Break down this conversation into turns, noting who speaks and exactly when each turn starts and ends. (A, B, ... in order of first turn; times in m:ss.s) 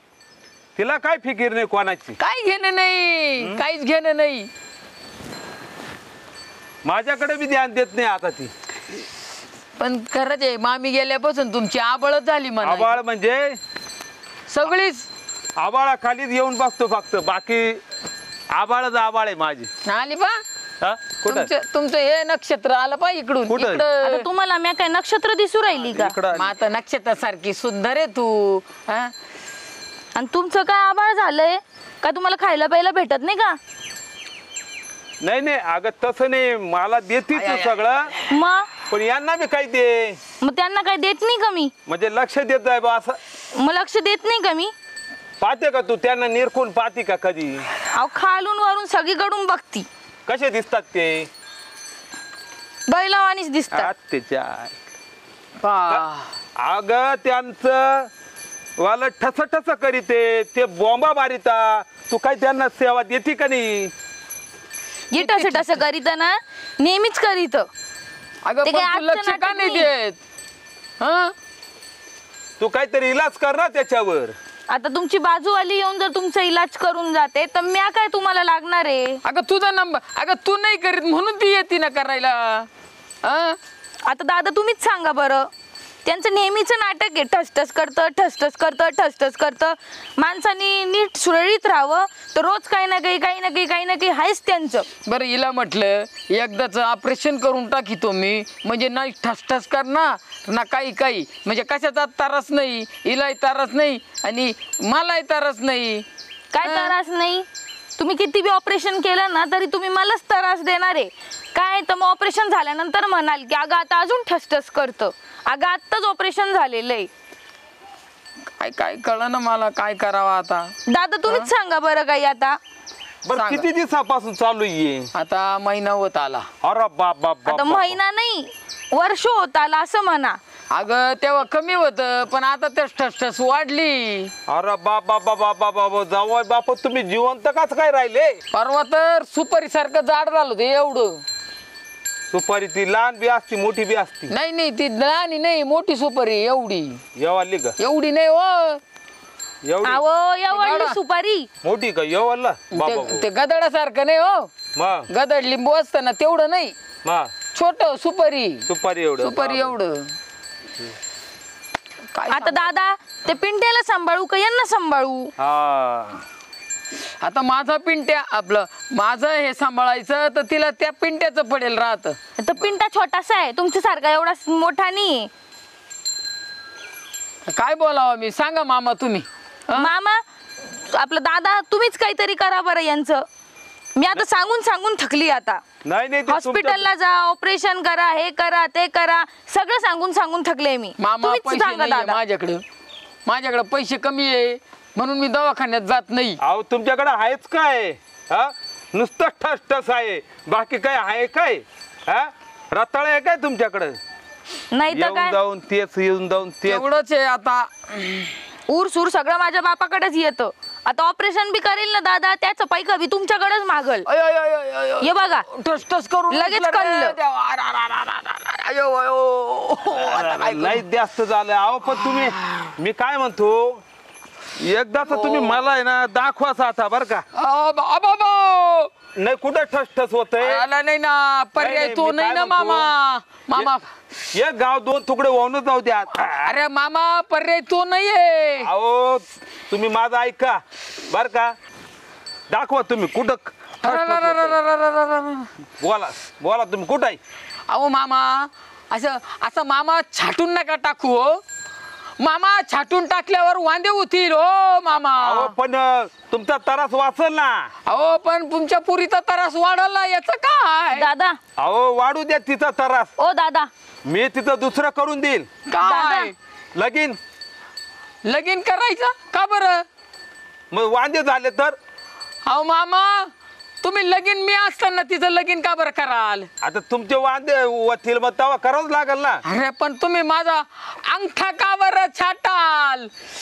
0:00.8-0:02.2 A
0:02.2-0:04.5 B
0:06.8-0:08.5 A
0:09.8-0:13.0 B
0:12.6-0:13.6 A
0:14.5-0:15.1 B
0:15.6-0:17.8 A
0:18.5-0:19.7 A
0:19.8-0:20.4 B
0:20.8-0:21.5 A
0:21.2-0:24.3 B
0:23.5-0:23.9 A
0:24.0-0:26.2 C
0:25.8-0:26.5 A
0:26.3-0:29.1 B
0:30.1-0:33.6 C
0:35.2-0:38.1 A
0:37.3-0:38.2 B
0:38.3-0:38.7 C
0:38.8-0:40.2 A
0:40.4-0:41.7 C
0:41.9-0:43.2 A
0:43.6-0:44.7 C
0:45.4-0:47.7 A
0:47.9-0:49.8 C
0:50.3-0:51.3 A
0:52.9-0:53.9 C
0:53.7-0:54.8 A
0:55.6-0:56.3 B
0:56.6-0:58.1 A
0:58.8-1:03.9 A
1:05.1-1:07.7 C
1:05.1-1:05.8 B
1:08.4-1:10.2 B
1:08.6-1:09.9 C
1:11.0-1:11.3 B
1:12.6-1:14.4 A
1:14.7-1:19.2 C
1:19.2-1:22.7 B
1:23.2-1:23.6 B
1:24.0-1:25.5 C
1:26.0-1:34.9 C
1:35.0-1:46.0 B
1:46.5-1:47.4 C
1:46.6-1:46.9 B
1:48.0-1:57.1 C
1:58.6-2:00.7 B
2:00.9-2:02.6 C
2:03.2-2:05.1 A
2:03.3-2:03.7 B
2:05.1-2:06.5 B
2:06.6-2:08.0 A
2:07.4-2:10.4 C
2:10.7-2:14.3 B
2:14.5-2:18.4 A
2:18.5-2:21.2 B
2:22.3-2:24.3 A
2:24.3-2:27.0 B
2:27.2-2:27.8 A
2:27.8-2:28.8 B
2:29.6-2:30.0 A
2:29.8-2:31.5 C
2:30.5-2:31.0 B
2:31.6-2:33.2 A
2:32.7-2:34.5 B
2:34.7-2:35.1 A
2:35.1-2:36.7 B
2:37.0-2:37.3 A
2:37.5-2:38.7 B
2:38.7-2:39.7 A
2:39.2-2:40.1 B
2:42.1-2:42.7 B
2:42.3-2:45.3 C
2:45.4-2:46.2 A
2:47.2-2:52.2 B
2:52.4-2:55.3 C
2:57.5-2:59.9 B
2:59.7-3:03.2 C
3:04.0-3:05.6 C
3:05.8-3:06.9 A
3:06.3-3:12.2 C
3:11.0-3:12.6 B
3:13.2-3:16.4 B
3:16.4-3:24.0 A
3:24.7-3:25.4 C
3:24.9-3:26.8 A
3:26.6-3:28.4 B
3:28.7-3:34.1 C
3:34.0-3:40.8 B
3:35.0-3:35.5 C
3:36.3-3:37.2 C
3:39.9-3:43.8 A
3:41.8-3:42.7 B
3:44.6-3:47.2 A
3:45.0-3:45.6 B
3:47.4-3:48.9 B
3:49.1-3:50.6 A
3:50.4-3:53.9 B
3:51.6-3:52.9 A
3:54.3-3:56.5 A
3:56.1-3:58.7 B
3:58.6-4:01.6 A
4:02.5-4:04.6 A
4:03.8-4:05.5 B
4:05.8-4:07.2 A
4:07.7-4:11.4 B
4:12.2-4:15.5 B
4:15.1-4:17.7 A
4:17.8-4:21.1 B
4:20.9-4:21.4 C
4:21.6-4:23.1 A
4:23.2-4:23.7 C
4:24.0-4:25.5 A
4:25.6-4:26.3 B
4:25.8-4:26.3 C
4:26.7-4:27.2 A
4:28.2-4:29.8 B
4:30.7-4:31.8 A
4:32.4-4:33.3 B
4:33.8-4:36.5 B
4:36.6-4:39.4 A
4:39.4-4:43.1 B